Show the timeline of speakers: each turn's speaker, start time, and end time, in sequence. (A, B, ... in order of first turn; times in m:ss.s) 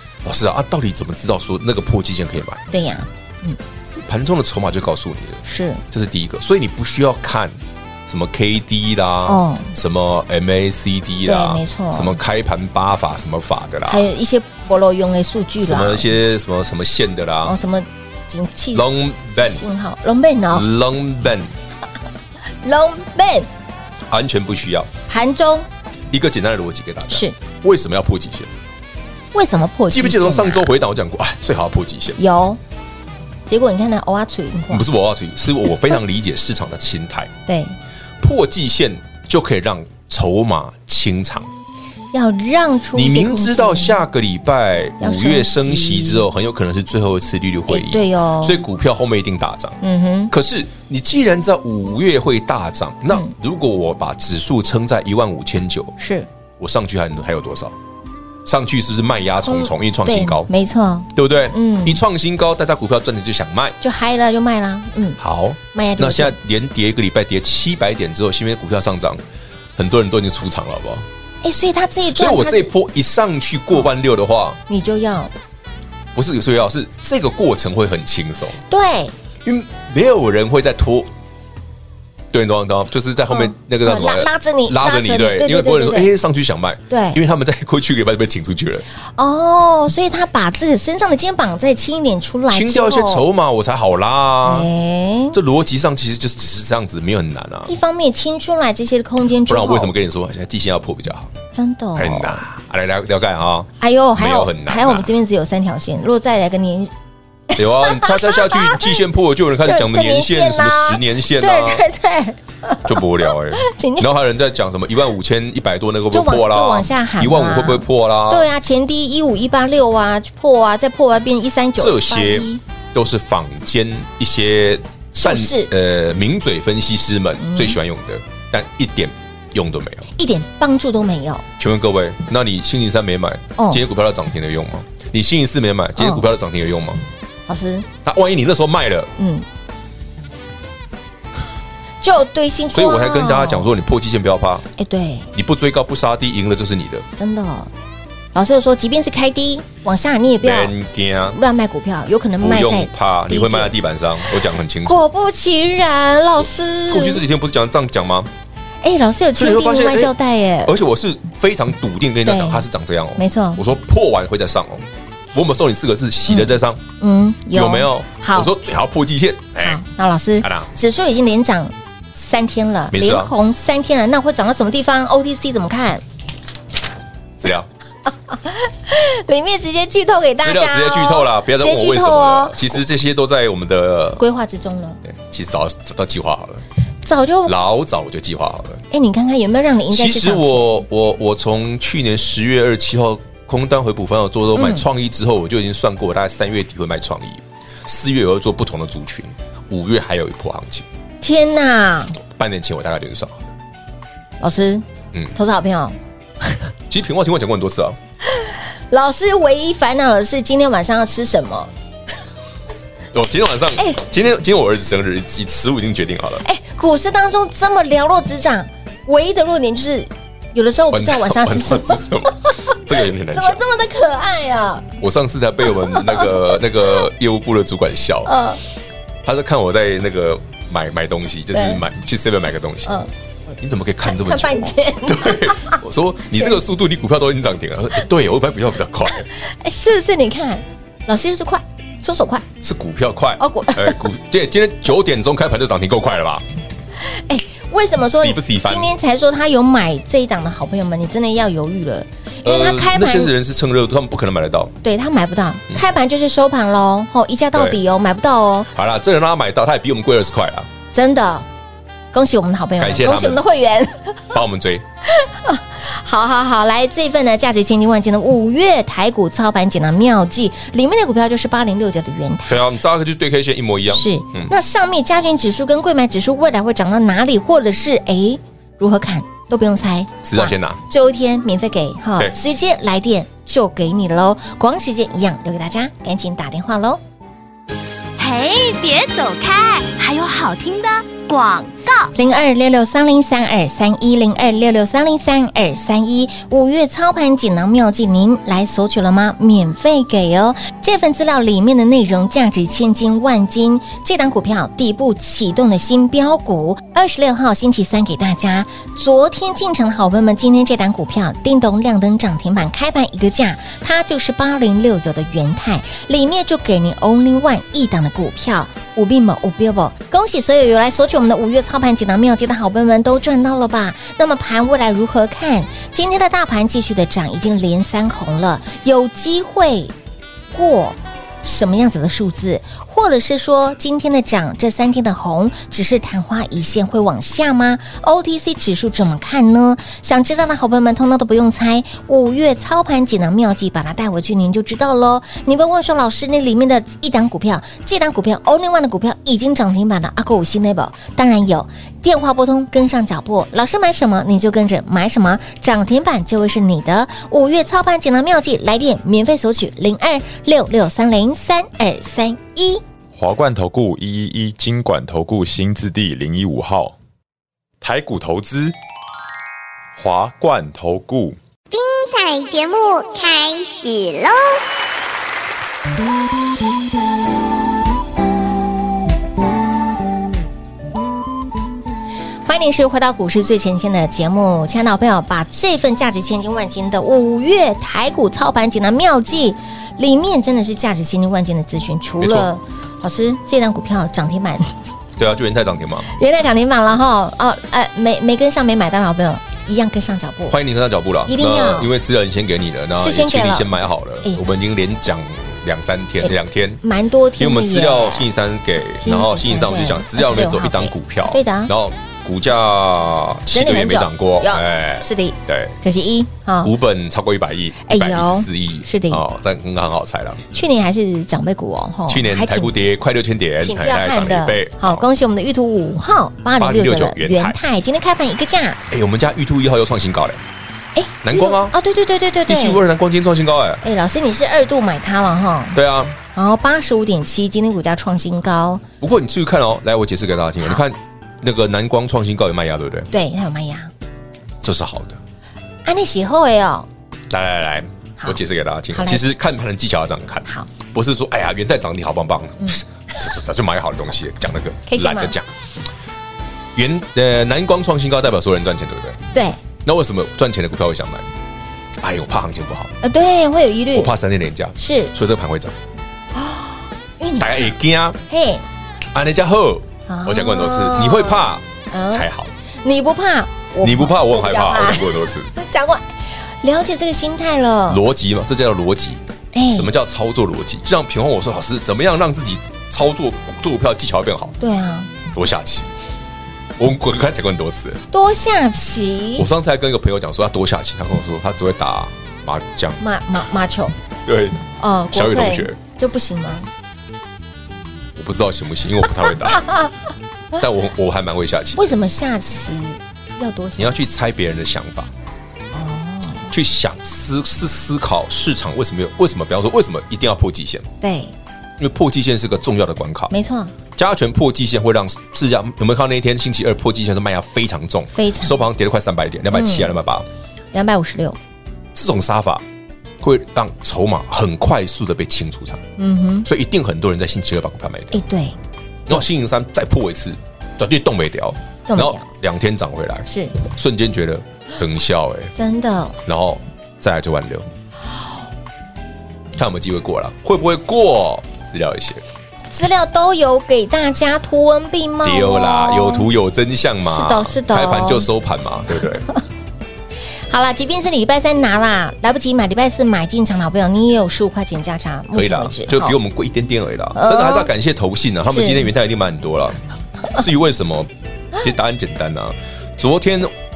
0:00.2-0:02.6 A
0:02.7-0:03.6 B
0:04.0-0:14.1 A
0:05.4-0:05.8 B
0:09.2-0:09.7 B
0:11.2-0:12.2 B
0:13.9-0:16.1 B
0:15.6-0:17.5 A
0:17.4-0:20.6 B
0:18.7-0:19.6 A
0:20.5-0:21.5 A
0:22.6-0:23.5 B
0:24.1-0:24.9 A
0:25.1-0:25.7 B
0:26.1-0:28.5 A
0:27.1-0:27.4 B
0:29.3-0:30.7 B
0:29.9-0:32.2 A
0:32.2-0:32.6 B
0:33.5-0:34.9 B
0:34.7-0:37.3 A
0:37.5-0:37.8 B
0:38.2-0:41.5 A
0:42.1-0:44.0 B
0:42.9-0:49.8 A
0:45.0-0:46.2 B
0:47.7-0:48.6 B
0:49.8-0:50.3 B
0:50.3-0:55.9 A
0:56.0-0:56.3 B
0:56.6-0:57.7 A
0:58.4-1:00.5 A
0:59.4-1:02.0 B
1:01.1-1:03.8 A
1:03.8-1:05.2 B
1:05.2-1:09.2 A
1:05.7-1:06.4 B
1:09.8-1:11.0 A
1:11.4-1:12.7 B
1:12.1-1:14.6 A
1:14.7-1:15.3 B
1:16.1-1:18.6 A
1:18.7-1:19.1 B
1:19.4-1:21.1 A
1:22.3-1:28.8 A
1:23.3-1:26.1 B
1:26.9-1:27.2 B
1:29.2-1:33.2 B
1:32.5-1:34.7 A
1:34.4-1:35.4 B
1:35.3-1:37.7 A
1:37.6-1:39.9 B
1:39.4-1:41.3 A
1:41.5-1:42.4 B
1:42.0-1:45.1 A
1:43.8-1:46.9 B
1:47.5-1:48.9 B
1:47.6-1:51.8 A
1:49.6-1:53.0 B
1:52.8-1:58.5 A
1:53.6-1:54.1 B
1:56.1-2:02.6 B
2:01.8-2:10.1 A
2:05.2-2:05.7 B
2:07.4-2:07.8 B
2:10.2-2:11.4 B
2:11.6-2:17.0 A
2:13.6-2:13.8 B
2:16.0-2:16.2 B
2:17.5-2:17.9 B
2:18.0-2:19.1 A
2:19.2-2:19.4 B
2:22.0-2:23.7 B
2:22.7-2:24.6 A
2:24.8-2:25.3 B
2:25.3-2:27.0 A
2:27.2-2:27.7 B
2:28.3-2:30.7 B
2:30.4-2:31.4 A
2:31.3-2:33.8 B
2:32.4-2:35.0 A
2:34.3-2:37.2 B
2:36.9-2:38.3 A
2:38.8-2:40.8 B
2:39.3-2:40.1 A
2:40.6-2:46.8 A
2:42.2-2:42.6 B
2:43.2-2:43.6 B
2:46.3-2:48.5 B
2:47.5-2:49.8 A
2:49.6-2:56.0 B
2:50.4-2:50.7 A
2:52.9-2:53.3 A
2:57.4-2:57.7 A
2:58.0-3:02.8 B
3:00.4-3:04.2 A
3:04.2-3:05.0 B
3:05.0-3:06.6 A
3:07.0-3:07.5 B
3:07.4-3:08.8 A
3:08.9-3:10.8 B
3:09.9-3:20.8 A
3:14.5-3:14.8 B
3:21.2-3:22.2 B
3:22.3-3:23.5 A
3:24.4-3:24.8 B
3:25.3-3:26.0 B
3:26.9-3:28.0 A
3:28.3-3:31.7 B
3:33.1-3:36.4 A
3:36.4-3:44.8 B
3:40.9-3:43.6 A
3:45.0-3:48.4 A
3:45.7-3:46.3 B
3:48.2-3:48.6 B
3:49.2-3:53.0 A
3:51.5-3:51.8 B
3:52.8-3:55.8 B
3:53.6-3:59.2 A
3:56.3-3:56.6 B
3:59.3-4:02.4 B
4:02.6-4:06.4 A
4:03.4-4:04.1 B
4:07.0-4:13.3 B
4:08.2-4:08.9 A
4:12.4-4:14.7 A
4:14.8-4:18.7 B
4:17.5-4:17.8 A
4:18.7-4:20.7 A
4:20.9-4:21.4 B
4:22.1-4:24.4 B
4:22.8-4:23.4 A
4:24.3-4:24.8 A
4:25.1-4:32.6 B
4:32.5-4:34.5 A
4:33.9-4:47.0 B
4:40.2-4:40.8 A
4:48.2-4:52.1 C
4:52.1-5:29.9 B
5:30.5-6:02.8 B
6:03.1-6:07.0 D
6:07.8-6:08.7 D
6:10.0-6:11.4 D
6:11.7-6:14.6 E
6:22.4-6:34.7 B
6:32.2-6:32.5 A
6:35.2-6:36.1 A
6:36.1-6:40.6 B
6:40.5-6:46.8 A
6:41.3-6:41.9 B
6:43.0-6:44.4 B
6:46.2-6:48.3 B
6:47.4-6:55.8 A
6:49.0-6:51.7 B
6:53.5-6:56.7 B
6:56.6-7:00.4 A
6:57.8-6:59.2 B
7:00.5-7:02.8 B
7:02.1-7:05.0 A
7:03.6-7:08.8 B
7:06.6-7:07.6 A
7:08.9-7:10.4 A
7:10.9-7:12.8 B
7:11.2-7:11.8 A
7:12.4-7:13.8 A
7:13.8-7:15.8 B
7:15.7-7:16.2 A
7:16.3-7:18.8 B
7:19.0-7:23.1 A
7:23.1-7:23.9 B
7:24.6-7:25.2 A
7:25.8-7:26.9 B
7:27.3-7:35.5 A
7:28.9-7:29.2 B
7:34.9-7:35.4 B
7:36.7-7:39.2 A
7:39.3-7:39.6 B
7:39.8-7:41.3 A
7:42.0-7:42.9 A
7:43.0-7:44.1 B
7:43.9-7:45.8 A
7:44.8-7:45.1 B
7:46.3-7:47.7 B
7:47.4-7:48.2 A
7:48.3-7:48.6 B
7:49.1-7:52.5 A
7:50.1-7:52.2 B
7:52.8-7:58.0 B
7:53.8-7:55.5 A
7:57.9-8:04.6 A
7:59.5-7:59.9 B
8:04.6-8:05.1 B
8:05.3-8:05.9 A
8:06.8-8:08.0 A
8:08.1-8:09.5 B
8:09.4-8:13.0 A
8:13.0-8:13.9 B
8:14.2-8:15.8 A
8:14.8-8:16.7 B
8:18.1-8:19.6 A
8:20.6-8:21.9 A
8:21.7-8:24.1 B
8:23.8-8:25.1 A
8:25.7-8:26.5 B
8:26.5-8:30.9 A
8:31.0-8:31.3 B
8:31.8-8:33.3 A
8:33.3-8:33.7 B
8:33.9-8:40.2 A
8:38.1-8:38.6 B
8:39.5-8:40.0 B
8:40.7-8:41.4 B
8:41.9-8:42.6 A
8:43.2-8:45.8 A
8:46.0-8:46.5 B
8:46.4-8:48.2 A
8:48.1-8:48.6 B
8:49.1-8:55.5 A
8:51.9-8:52.2 B
8:53.2-8:53.6 B
8:55.5-8:56.2 B
8:56.2-8:57.7 A
8:59.5-9:02.2 A
9:02.7-9:06.3 B
9:05.2-9:09.3 A
9:07.0-9:08.3 B
9:10.5-9:16.2 B
9:15.3-9:19.8 A
9:17.1-9:17.7 B
9:18.4-9:18.9 B
9:20.3-9:23.5 A